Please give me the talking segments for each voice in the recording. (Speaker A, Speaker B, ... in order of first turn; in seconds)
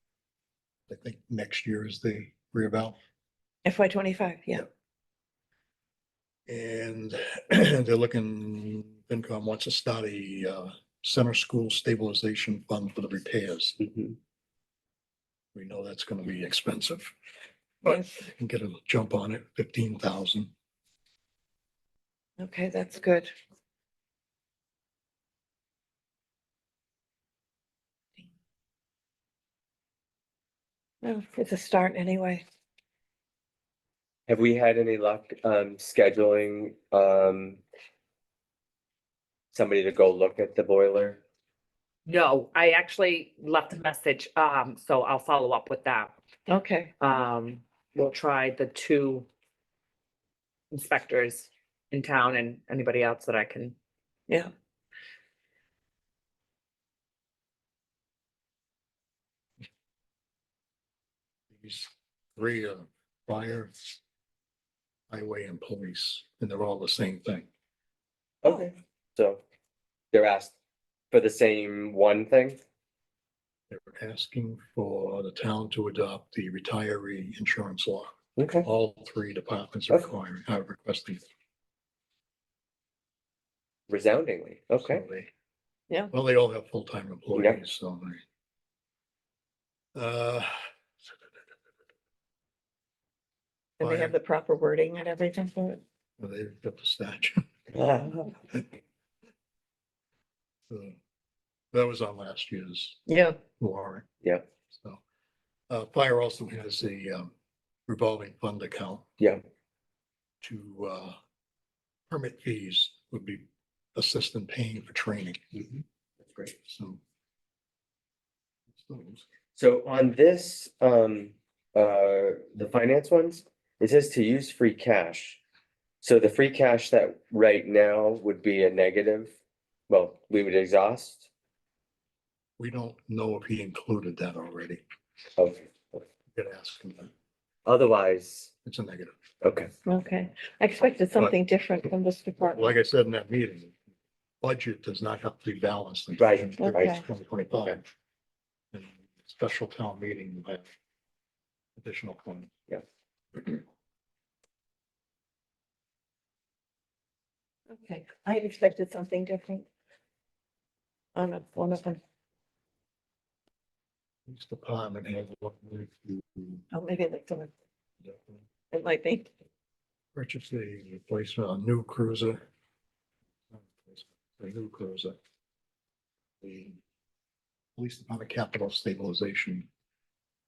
Speaker A: 0.9-3.0, 6.5-13.8, 15.5-17.1, 17.8-20.5, 61.5-63.7, 65.1-67.5, 73.7-81.2, 84.8-85.3, 86.1-88.2, 89.9-90.5, 93.8-94.1, 96.2-97.5, 100.7-101.0, 101.7-103.0, 103.6-104.0, 104.7-105.0, 105.7-107.3, 107.9-109.1, 110.4-111.2, 112.1-115.4, 116.5-117.0, 118.7-119.2, 132.6-134.8, 136.3-137.1, 138.6-139.1, 142.4-143.8, 144.4-147.8, 148.7-150.7, 151.8-152.5, 164.2-166.6, 168.0-168.4, 170.1-172.4, 173.5-175.2, 176.4-176.8, 177.8-179.7
Speaker B: 3.6-4.6, 22.4-23.3, 31.0-32.4, 46.5-46.9, 93.8-95.8, 103.1-103.4, 139.8-142.7, 146.6-147.0, 157.7-159.6, 161.1-162.0, 166.7-167.5, 168.7-169.3
Speaker C: 13.8-14.1, 34.3-37.6, 39.5-41.2, 68.4-69.4, 70.1-70.5, 71.1-72.6, 78.4-78.7, 83.9-85.0, 87.3-87.6, 97.7-98.4, 115.5-116.5, 119.5-125.4, 126.0-129.3, 129.9-131.2, 135.4-136.0, 137.7-138.5, 139.4-139.7, 146.2-147.0
Speaker D: 42.0-46.1, 47.0-49.3, 50.7-53.7